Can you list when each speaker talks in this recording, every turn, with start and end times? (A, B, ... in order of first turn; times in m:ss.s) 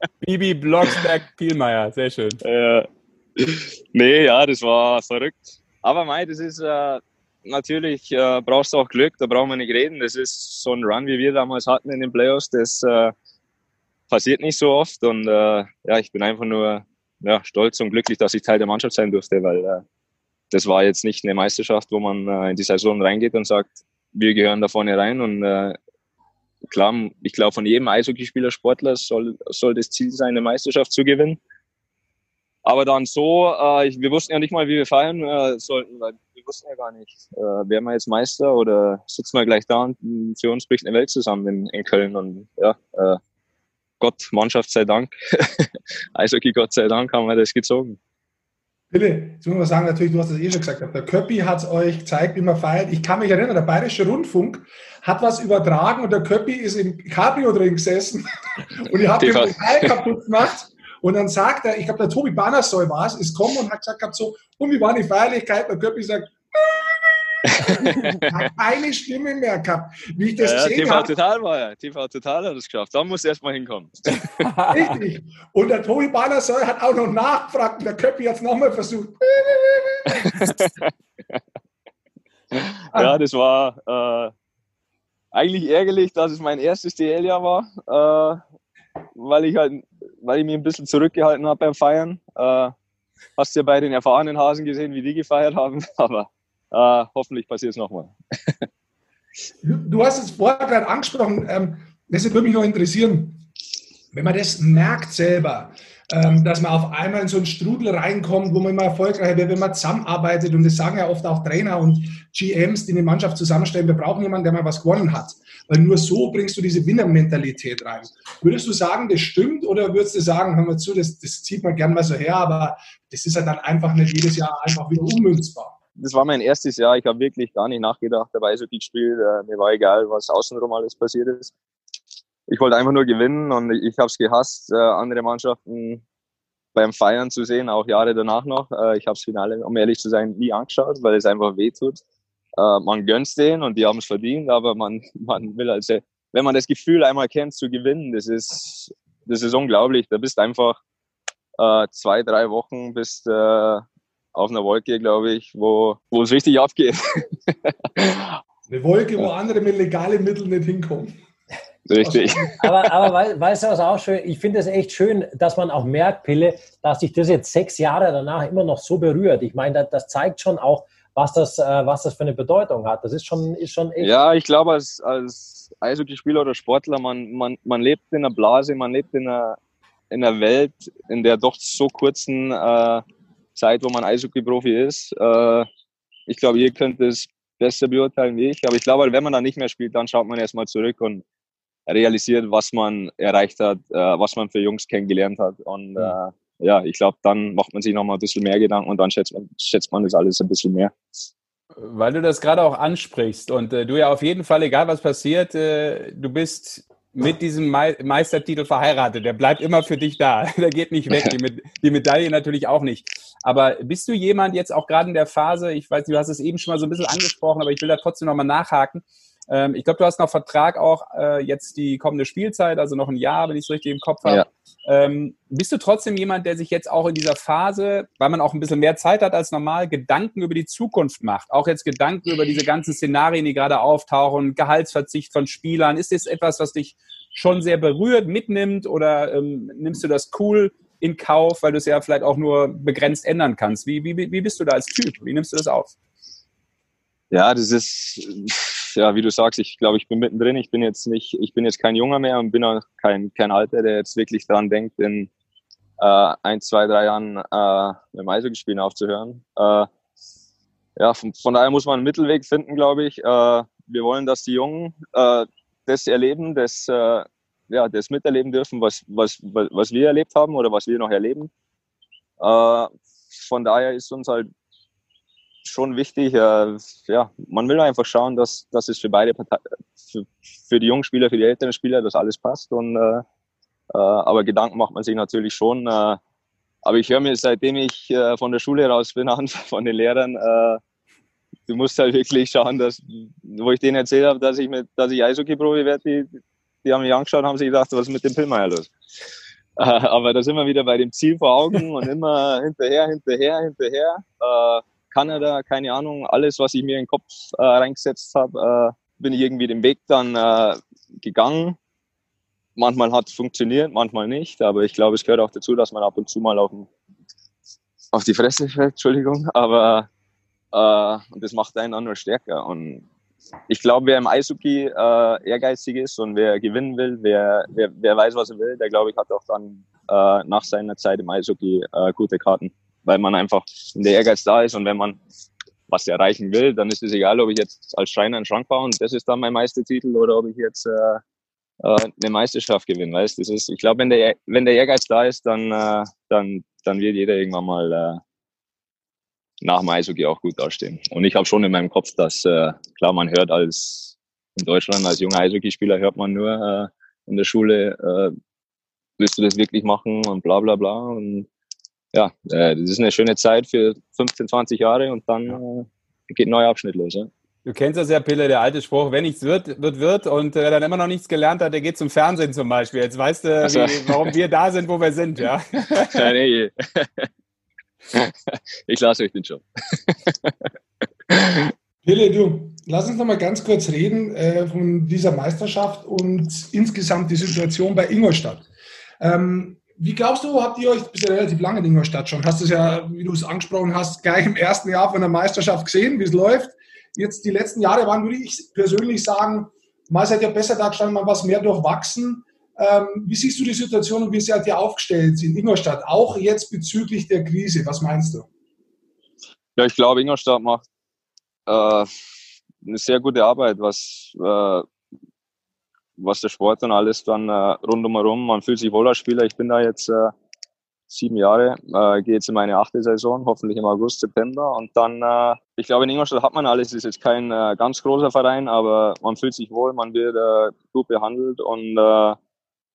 0:00.2-0:02.4 A
0:02.4-0:13.1 B
0:14.1-0:19.8 B
0:20.5-0:25.8 B
0:26.7-0:31.4 B
0:32.6-0:43.2 B
0:44.0-0:48.0 B
0:48.9-1:11.1 C
0:59.2-0:59.6 B
1:07.5-1:08.3 B
1:10.4-1:14.5 B
1:14.4-1:15.0 A
1:14.7-1:20.3 C
1:20.2-1:21.4 B
1:22.5-1:24.3 B
1:25.3-1:28.4 B
1:29.2-1:32.7 B
1:33.4-1:38.6 B
1:39.6-1:43.4 C
1:44.1-2:05.7 C
2:06.0-2:11.5 B
2:12.5-2:16.0 B
2:16.8-2:22.0 B
2:22.6-2:30.8 B
2:31.6-2:38.4 B
2:38.7-2:41.2 C
2:41.9-2:42.7 B
2:42.0-2:42.6 C
2:42.6-2:54.2 D
2:54.0-2:59.6 B
3:00.1-3:03.0 B
3:03.6-3:05.7 B
3:06.3-3:11.2 B
3:11.9-3:21.0 B
3:21.8-4:05.9 A
4:07.3-4:15.3 B
4:16.0-4:19.9 B
4:21.0-4:31.5 B
4:32.4-4:34.5 B
4:35.6-4:43.2 B
4:43.9-4:46.2 B
4:46.8-4:50.8 B
4:51.7-4:58.9 B
4:59.8-5:11.8 B
5:12.8-5:16.9 B
5:18.1-5:20.1 B
5:20.7-5:23.0 B
5:23.7-5:35.2 B
5:35.9-5:41.2 B
5:41.8-5:48.2 B
5:49.6-5:58.3 B
5:59.2-6:01.5 B
6:02.1-6:07.3 B
6:07.6-6:16.3 A
6:13.6-6:14.3 B
6:16.0-6:17.3 B
6:18.1-6:20.7 B
6:21.3-6:21.7 B
6:22.0-6:28.7 C
6:29.2-6:48.5 C
6:49.8-6:50.8 B
6:51.7-6:52.1 B
6:52.8-6:54.9 B
6:56.2-7:00.3 B
7:01.1-7:12.4 B